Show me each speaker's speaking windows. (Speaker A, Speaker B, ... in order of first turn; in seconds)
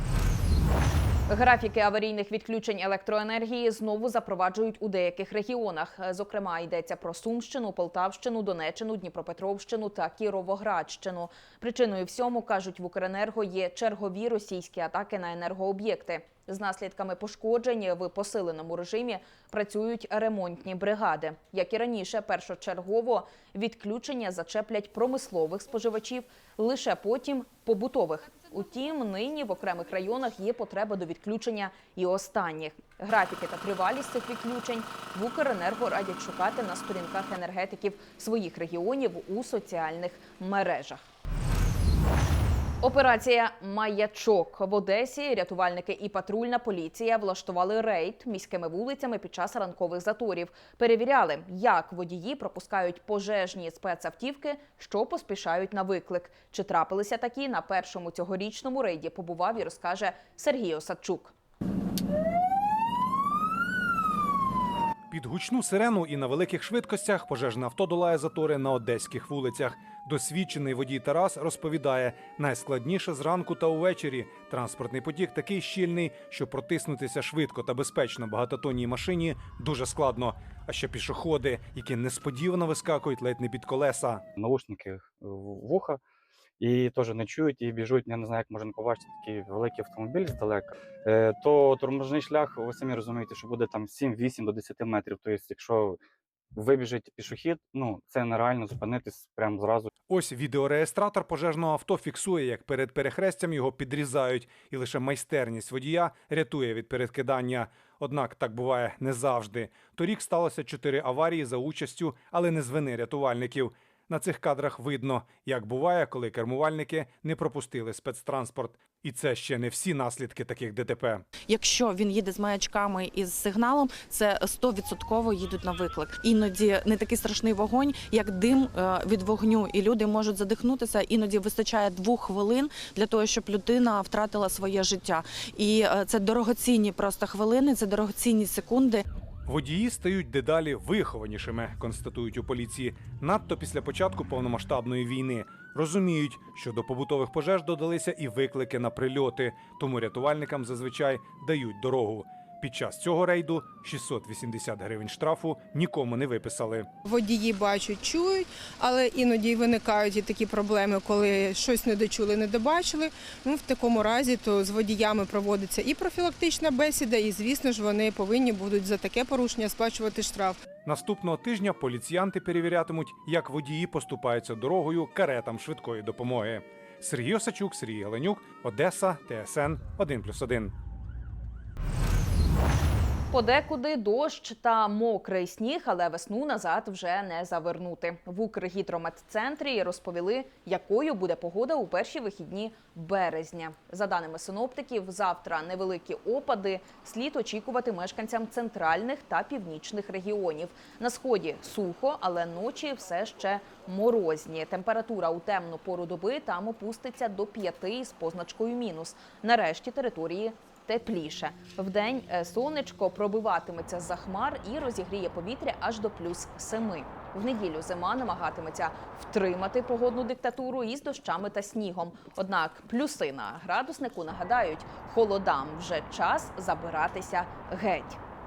Speaker A: 1.3-41.1, 42.8-61.3, 183.3-228.2
Speaker B: 65.1-84.2, 100.1-121.2, 139.5-156.9, 170.8-180.7
Speaker C: 84.4-86.0, 86.6-96.0, 96.5-99.9
Speaker D: 121.5-139.0
Speaker E: 157.0-170.6